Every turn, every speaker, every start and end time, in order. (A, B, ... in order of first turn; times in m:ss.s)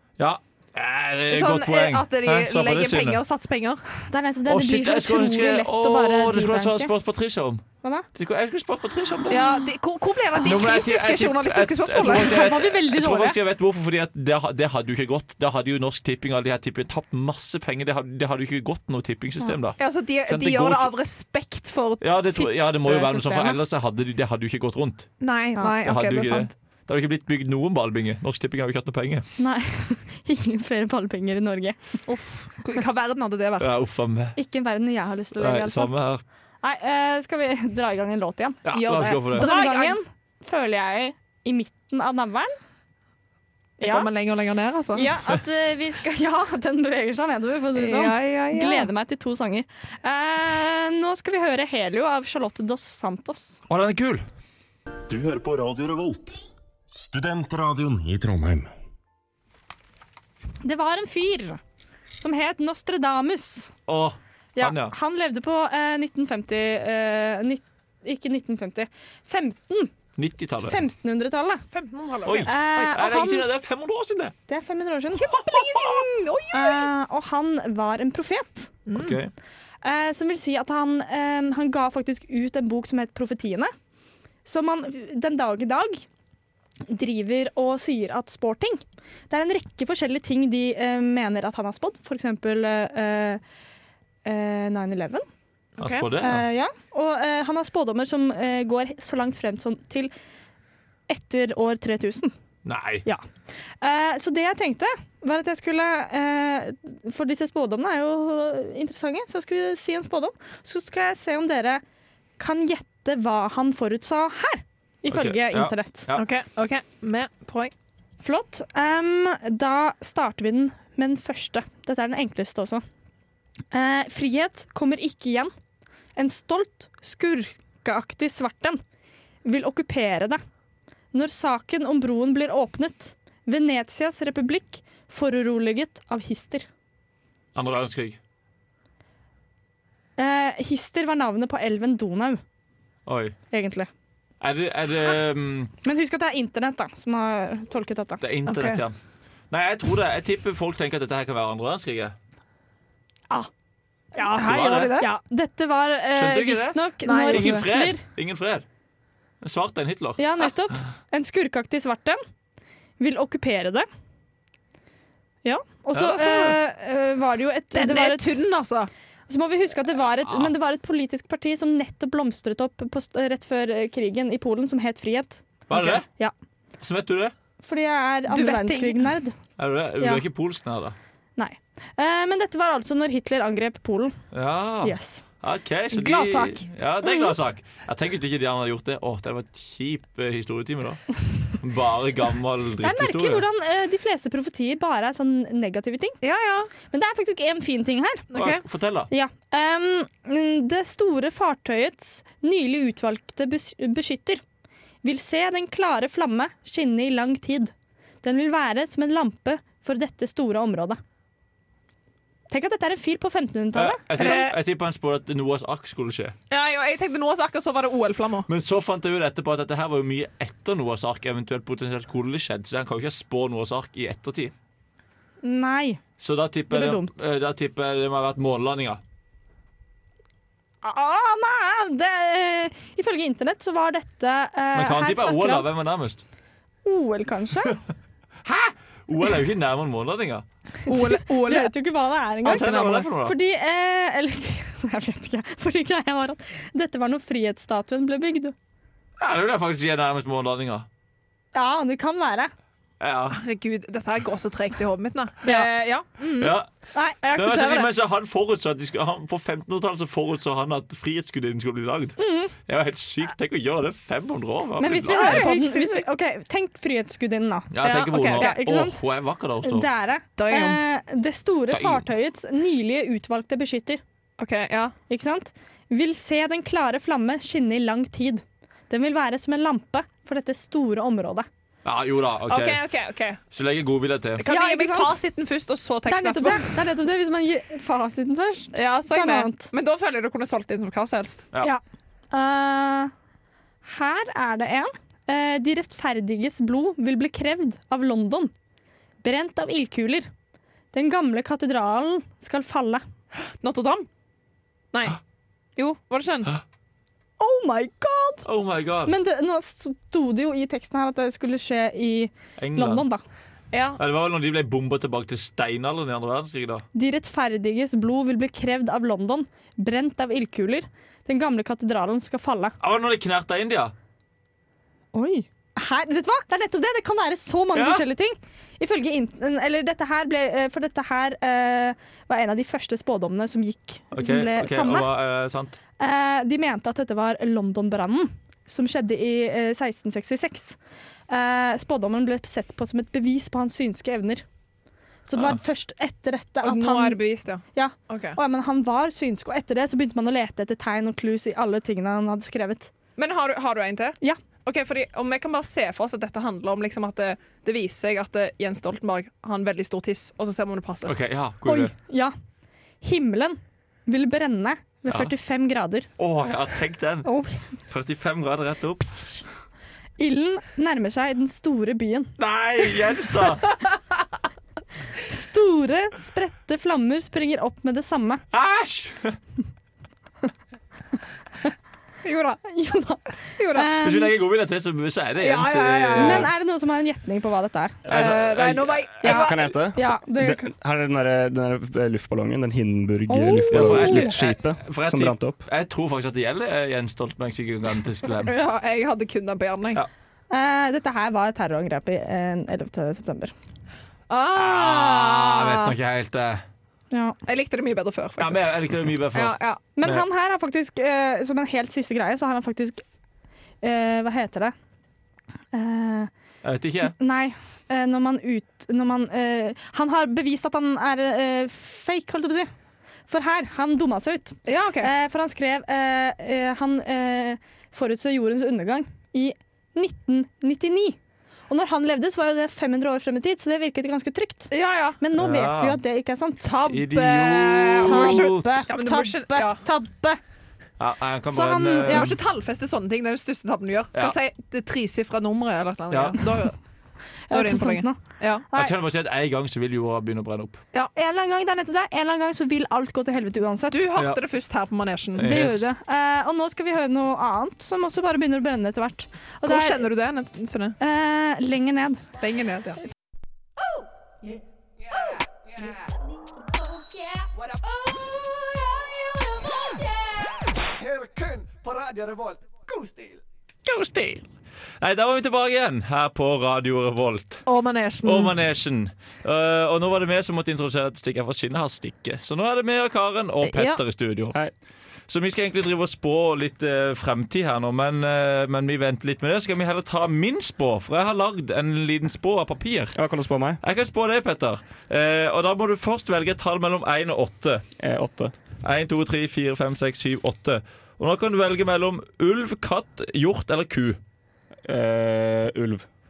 0:00.2-0:03.2 A
0:01.3-0:03.8 B
0:04.1-0:06.9 C
0:04.5-0:09.5 A
0:09.3-0:12.6 B
0:10.3-0:20.9 A
0:12.0-0:13.4 C
0:19.8-0:22.0 B
0:22.0-0:25.1 A
0:22.3-0:23.6 C
0:25.2-0:26.5 B
0:25.8-0:29.3 A
0:29.4-0:31.8 C
0:32.1-0:33.7 B
0:33.6-0:34.4 A
0:34.4-0:35.9 C
0:35.4-0:36.2 A
0:36.6-0:38.6 C
0:38.6-0:39.5 A
0:38.7-0:40.0 B
0:39.3-0:42.5 C
0:43.8-0:44.1 C
0:43.8-0:45.1 B
0:44.9-0:53.6 C
0:47.7-0:48.9 B
0:53.7-0:54.2 A
0:55.1-0:58.7 D
1:00.6-1:01.6 C
1:02.2-1:03.7 C
1:03.9-1:04.9 A
1:04.6-1:09.9 C
1:10.2-1:10.8 A
1:10.6-1:11.6 C
1:11.7-1:12.6 B
1:12.2-1:14.3 A
1:12.4-1:13.4 C
1:14.5-1:15.4 C
1:15.2-1:16.9 B
1:15.4-1:16.0 A
1:16.5-1:18.7 C
1:18.9-1:19.2 B
1:18.9-1:19.3 A
1:19.8-1:23.7 C
1:24.4-1:26.0 C
1:26.8-1:33.4 C
1:34.2-1:35.2 C
1:35.8-1:36.4 A
1:35.8-1:36.1 B
1:36.2-1:40.1 C
1:41.1-1:42.3 C
1:42.6-1:43.0 A
1:43.8-1:51.8 C
1:52.4-1:56.1 C
1:55.1-1:56.2 A
1:56.1-1:57.7 B
1:58.2-2:02.8 C
2:03.7-2:05.5 C
2:06.2-2:08.8 C
2:09.4-2:10.4 C
2:11.1-2:16.7 C
2:17.5-2:18.2 A
2:20.2-2:22.4 C
2:23.0-2:23.4 A
2:23.5-2:23.9 C
2:24.4-2:25.7 A
2:25.8-2:28.2 C
2:28.2-2:28.9 A
2:28.5-2:28.8 B
2:29.5-2:32.1 A
2:34.1-2:38.0 C
2:34.2-2:35.1 B
2:34.4-2:35.0 A
2:36.2-2:38.6 A
2:37.0-2:37.7 B
2:39.4-2:40.5 A
2:40.2-2:42.2 C
2:43.0-2:43.8 C
2:45.4-2:48.4 C
2:45.9-2:46.6 A
2:47.7-2:48.9 B
2:49.3-2:56.3 C
2:55.7-2:56.0 A
2:55.7-2:56.0 B
2:56.8-2:57.3 A
2:57.6-2:59.3 C
2:58.3-2:59.0 B
2:59.6-3:01.0 A
3:01.4-3:04.2 C
3:04.3-3:13.4 A
3:04.8-3:05.2 C
3:05.9-3:06.6 B
3:07.0-3:07.3 C
3:12.8-3:16.2 C
3:16.2-3:16.7 B
3:16.8-3:18.3 C
3:18.3-3:18.6 B
3:18.3-3:19.1 A
3:19.1-3:24.4 C
3:25.0-3:27.7 C
3:28.2-3:31.0 C
3:32.5-3:34.4 C
3:33.7-3:36.3 A
3:34.1-3:34.5 B
3:36.5-3:38.5 B
3:38.5-3:44.5 A
3:45.4-3:46.0 C
3:46.2-3:49.0 A
3:46.7-3:47.2 C
3:50.8-3:55.7 C
3:54.7-3:56.2 A
3:56.8-3:57.8 C
3:58.4-4:00.4 A
4:00.8-4:01.7 B
4:00.9-4:08.5 C
4:02.4-4:03.1 B
4:02.4-4:03.3 A
4:09.2-4:10.9 A
4:11.5-4:12.5 C
4:13.0-4:13.4 A
4:13.3-4:16.6 B
4:16.4-4:16.7 A
4:16.9-4:17.8 C
4:17.3-4:25.5 A
4:22.2-4:22.5 C
4:24.8-4:29.0 C
4:25.1-4:26.0 B
4:27.7-4:29.9 A
4:27.8-4:28.6 B
4:29.6-4:34.0 C
4:30.4-4:30.8 B
4:31.7-4:32.0 A
4:34.4-4:34.9 B
4:35.1-4:41.4 C
4:41.8-4:42.8 A
4:42.4-4:43.4 B
4:43.5-4:44.4 A
4:44.4-4:46.7 B
4:44.4-4:45.2 C
4:46.0-4:49.7 C
4:48.7-4:51.5 B
4:52.3-4:53.1 C
4:53.8-4:58.5 C
4:59.2-5:00.3 C
5:00.9-5:03.0 C
5:03.6-5:04.1 B
5:04.9-5:05.2 B
5:05.8-5:06.6 B
5:07.4-5:08.5 C
5:08.4-5:09.1 A
5:09.0-5:13.2 C
5:12.6-5:13.0 A
5:13.7-5:14.0 B
5:14.0-5:16.8 A
5:16.9-5:22.8 C
5:22.8-5:23.9 A
5:25.1-5:35.1 C
5:27.7-5:28.0 A
5:34.1-5:35.8 A
5:36.0-5:40.8 C
5:41.3-5:44.4 C
5:45.3-5:47.2 C
5:46.6-5:48.4 B
5:47.7-5:52.9 C
5:53.2-6:01.1 B
6:01.0-6:01.9 A
6:01.6-6:02.3 C
6:03.0-6:06.1 C
6:06.2-6:07.3 A
6:07.2-6:07.6 C
6:07.9-6:09.4 A
6:10.2-6:12.3 C
6:12.4-6:13.6 A
6:15.2-6:18.4 C
6:18.5-6:19.4 A
6:22.2-6:22.7 B
6:22.6-6:23.2 C
6:23.6-6:23.9 B
6:23.7-6:24.3 C
6:24.0-6:26.5 A
6:25.4-6:26.5 B
6:26.2-6:28.0 C
6:28.1-6:29.2 A
6:28.1-6:29.8 B
6:29.2-6:30.7 C
6:29.3-6:35.6 E
6:33.3-6:34.3 C
6:33.7-6:38.5 A
6:38.4-6:40.0 B
6:40.5-6:43.5 C
6:44.3-6:45.9 B
6:44.5-6:46.6 A
6:47.4-6:48.8 B
6:48.4-6:50.2 A
6:49.3-6:49.8 B
6:50.0-6:53.0 C
6:53.8-6:54.7 C
6:55.7-6:56.3 C
6:56.6-6:57.2 A
6:57.0-7:02.7 C
7:03.3-7:11.2 C
7:04.6-7:05.1 B
7:11.7-7:16.7 C
7:14.7-7:15.2 B
7:15.3-7:16.0 A
7:16.6-7:19.8 B
7:16.8-7:18.9 A
7:18.0-7:20.4 C
7:21.0-7:22.4 A
7:21.5-7:22.3 C
7:22.0-7:26.8 B
7:26.1-7:26.4 A
7:27.5-7:28.2 C
7:27.5-7:28.7 B
7:28.7-7:30.8 A
7:31.1-7:34.1 C
7:33.9-7:35.6 B
7:34.2-7:34.4 A
7:35.4-7:35.9 A
7:35.4-7:40.0 C
7:39.6-7:41.0 B
7:41.0-7:42.2 C
7:42.4-7:43.0 B
7:53.8-7:54.4 A
7:55.0-7:57.6 A
7:57.6-7:58.5 B
7:58.2-8:04.6 A
8:03.6-8:04.0 B
8:05.3-8:13.2 A
8:13.1-8:13.8 E
8:13.8-8:17.8 A
8:18.0-8:18.5 E
8:18.8-8:24.2 A
8:24.8-8:26.0 E